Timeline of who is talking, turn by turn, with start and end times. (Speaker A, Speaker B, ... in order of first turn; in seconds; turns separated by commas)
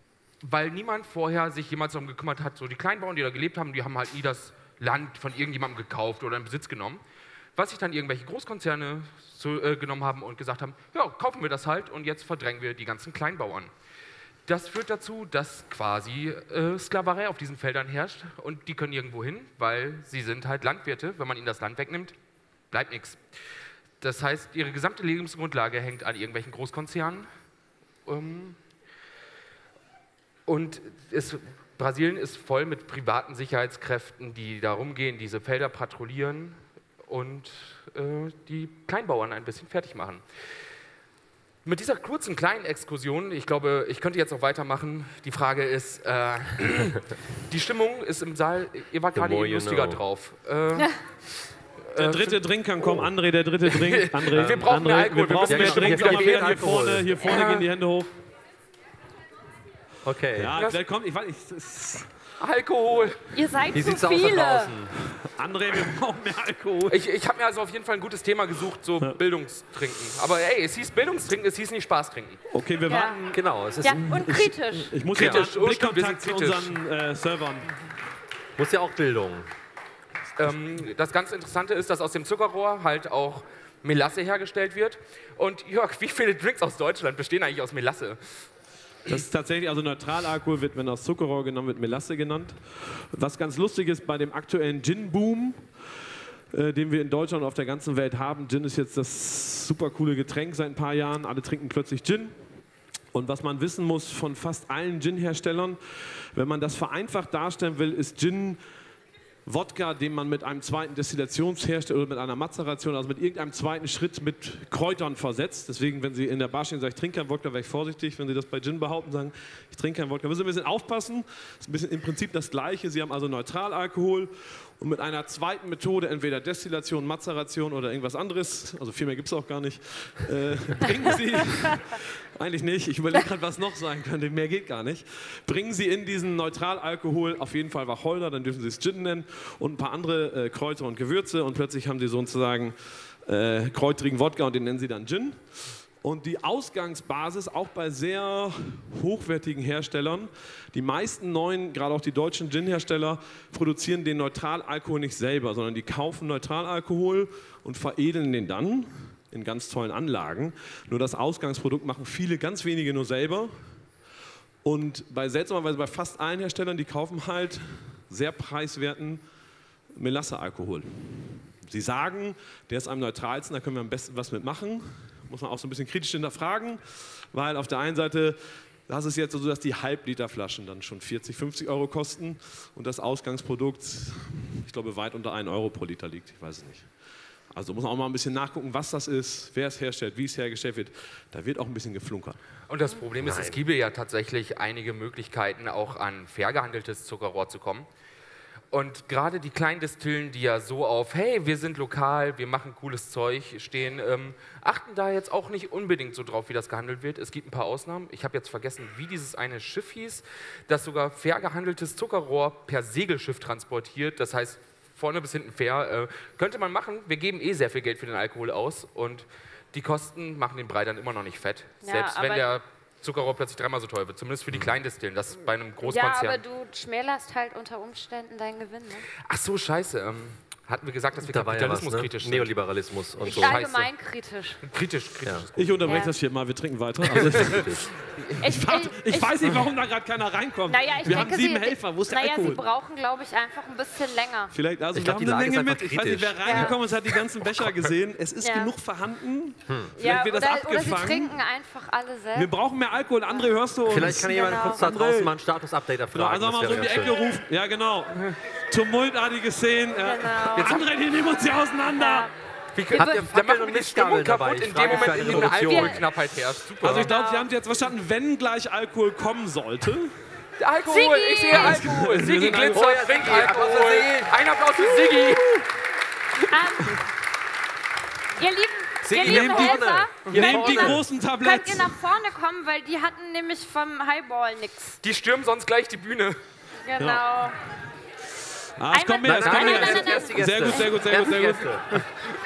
Speaker A: 0.4-7.0, Speaker A: 7.6-13.7, Speaker A: 14.5-22.1, Speaker A: 22.7-23.2, Speaker A: 24.0-27.3, Speaker A: 28.1-28.6, Speaker A: 30.5-40.2, Speaker A: 41.6-51.0, Speaker B: 49.1-50.0, Speaker A: 51.9-53.0, Speaker C: 52.0-58.1, Speaker A: 53.7-57.7, Speaker B: 54.4-54.6, Speaker B: 55.4-57.2, Speaker B: 60.0-60.5, Speaker C: 60.4-62.1, Speaker A: 60.6-60.8, Speaker A: 62.4-63.3, Speaker D: 63.3-64.7, Speaker B: 63.7-65.0, Speaker C: 65.1-67.0, Speaker A: 66.9-72.4, Speaker C: 72.5-73.4, Speaker D: 72.9-73.2, Speaker B: 73.3-74.2, Speaker D: 73.8-74.9, Speaker C: 73.9-77.7, Speaker A: 75.1-76.8, Speaker B: 75.2-75.5, Speaker B: 78.6-79.5, Speaker A: 80.4-88.2, Speaker C: 89.1-95.8, Speaker C: 96.5-102.4, Speaker C: 103.1-108.6, Speaker C: 109.5-145.5, Speaker C: 146.0-163.6, Speaker C: 164.6-169.2, Speaker C: 169.9-186.9, Speaker C: 187.5-192.4, Speaker A: 192.7-197.9, Speaker B: 193.2-193.6, Speaker A: 198.7-226.4, Speaker D: 221.8-222.5, Speaker D: 225.8-229.1, Speaker A: 229.2-232.6, Speaker B: 231.2-233.6, Speaker A: 233.2-233.9, Speaker D: 233.2-234.6, Speaker A: 234.6-235.7, Speaker C: 235.6-242.6, Speaker D: 235.8-236.2, Speaker B: 237.0-237.8, Speaker A: 237.1-237.7, Speaker D: 238.4-239.3, Speaker D: 240.7-244.5, Speaker C: 244.5-251.4, Speaker B: 244.9-246.8, Speaker D: 246.4-246.8, Speaker D: 248.4-248.7, Speaker D: 250.0-252.5, Speaker C: 252.3-255.3, Speaker D: 253.3-254.9, Speaker B: 253.9-257.2, Speaker C: 256.1-262.3, Speaker D: 260.0-260.9, Speaker D: 262.0-262.3, Speaker A: 262.8-267.1, Speaker B: 262.9-266.0, Speaker D: 262.9-263.3, Speaker D: 264.8-266.0, Speaker C: 266.8-270.1, Speaker D: 267.0-267.5, Speaker A: 270.6-275.5, Speaker D: 270.9-272.1, Speaker C: 271.5-273.5, Speaker B: 272.7-274.4, Speaker C: 275.3-275.6, Speaker D: 276.4-277.0, Speaker D: 278.4-285.0, Speaker B: 279.0-281.0, Speaker C: 279.2-282.0, Speaker A: 285.0-286.4, Speaker D: 286.8-287.6, Speaker C: 287.0-287.2, Speaker C: 288.8-291.8, Speaker D: 288.9-290.9, Speaker A: 289.2-291.4, Speaker B: 290.7-292.0